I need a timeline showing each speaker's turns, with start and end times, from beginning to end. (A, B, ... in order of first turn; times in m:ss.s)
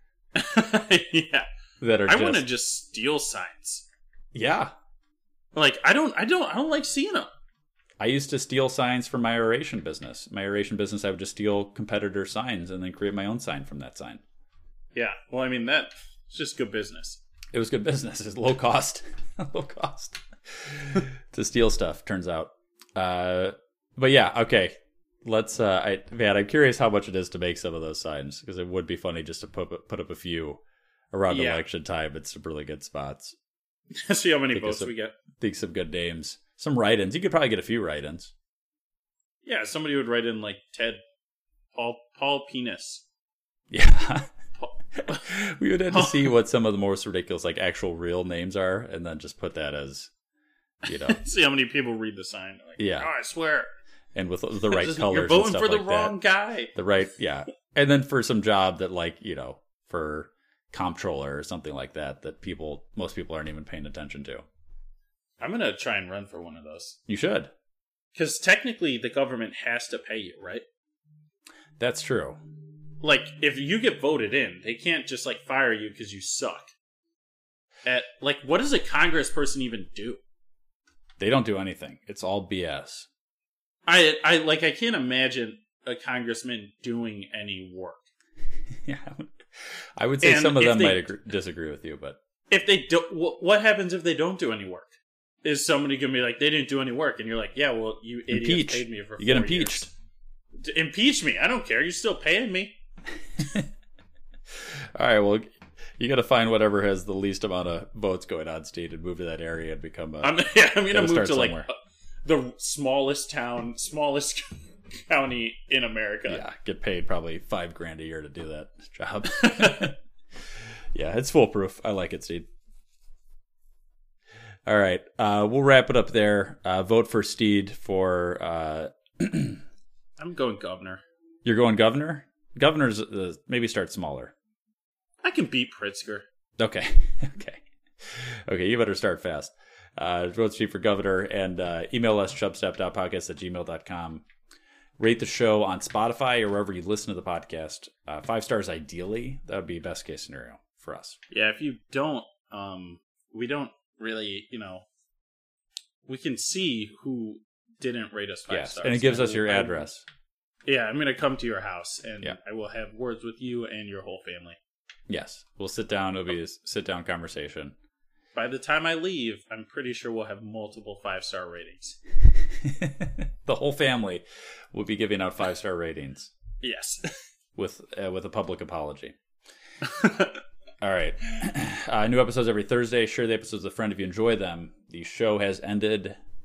0:00.3-0:01.5 A
0:01.8-0:02.5 B
0:02.1-0:03.8 A
0:04.3-0:04.7 B
0:05.5-0:07.3 A
0:08.0-0:14.2 B
0:14.9-0:17.2 A
0:17.5-0:33.3 B
0:31.3-0:31.6 A
0:33.9-0:35.1 A
0:34.5-0:38.3 B
0:39.4-0:41.0 A
0:41.7-0:43.0 A
0:43.7-0:44.3 B
0:44.6-0:45.2 A
0:45.0-0:50.1 B
0:45.9-0:46.3 A
0:50.8-0:51.2 B
0:50.9-0:53.7 A
0:52.8-0:53.1 B
0:54.1-0:56.2 B
0:54.7-0:56.7 A
0:56.7-1:04.4 B
1:05.4-1:07.0 A
1:07.1-1:07.5 B
1:08.2-1:10.6 A
1:11.8-1:12.4 B
1:13.0-1:16.7 A
1:17.8-1:20.2 A
1:21.2-1:23.1 B
1:23.8-1:28.1 A
1:28.8-1:32.2 B
1:30.2-1:31.1 A
1:32.5-1:39.9 A
1:38.3-1:39.9 B
1:40.6-1:42.8 A
1:43.4-1:43.7 B
1:44.6-1:51.7 B
1:50.2-1:51.7 A
1:52.2-1:56.4 A
1:56.3-2:00.0 B
1:59.4-1:59.9 A
2:00.9-2:02.5 B
2:04.6-2:09.6 B
2:10.2-2:11.0 A
2:11.4-2:14.3 B
2:15.2-2:16.2 A
2:16.6-2:24.2 B
2:25.0-2:31.2 B
2:31.3-2:34.8 A
2:36.1-2:39.8 A
2:38.5-2:40.0 B
2:40.6-2:44.6 A
2:45.1-2:47.7 B
2:48.3-2:52.0 A
2:52.6-2:56.3 B
2:56.6-2:57.0 A
2:57.6-2:59.2 B
2:59.9-3:00.3 A
3:00.8-3:06.2 B